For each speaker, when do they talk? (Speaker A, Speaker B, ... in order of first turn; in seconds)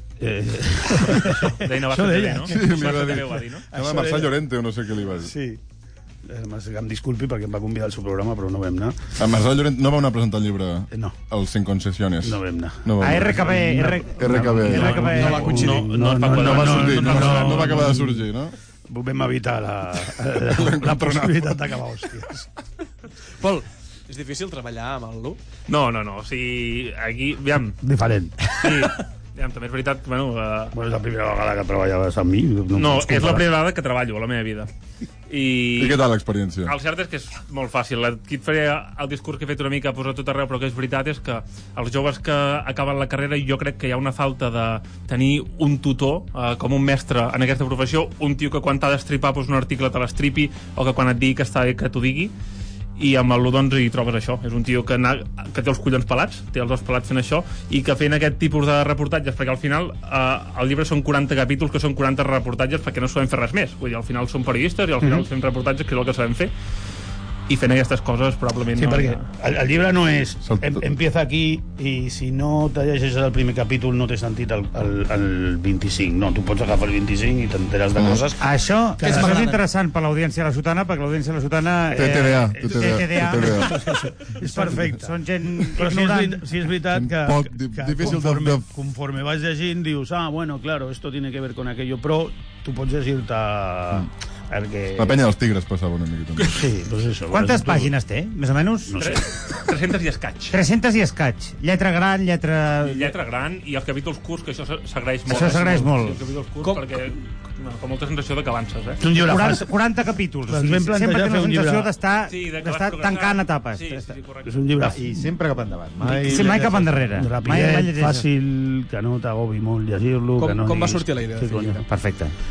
Speaker A: 0.2-2.9, 3.7-4.3, 5.2-5.6, 6.2-9.0, 10.9-11.2, 12.2-18.3, 18.9-22.5, 27.8-28.7, 30.7-33.5, 68.8-78.4, 79.0-79.6, 82.6-95.2, 96.4-97.9, 98.9-99.3, 109.0-109.7, 110.5-111.9, 114.5-115.3, 116.0-121.8
Speaker B: 1.1-3.7, 15.4-17.8, 25.7-27.8, 28.6-30.8, 32.8-34.7, 35.3-36.0, 36.7-52.3, 53.0-66.5, 67.5-69.2, 99.0-100.6, 102.8-109.0, 112.3-114.9
Speaker C: 2.5-5.3, 9.2-13.7, 14.2-15.2, 16.4-18.6, 20.5-21.5, 35.8-36.7, 70.5-70.8, 81.9-83.8, 86.9-88.7, 95.0-96.7
Speaker D: 13.0-15.6, 78.4-83.8, 84.4-86.4, 97.3-99.2, 100.5-103.1, 105.3-106.2, 109.2-114.1, 116.2-118.3, 121.9-122.3
Speaker E: 14.9-15.9, 23.4-25.4, 79.0-79.6, 106.6-107.0, 120.4-121.9
Speaker F: 114.8-117.1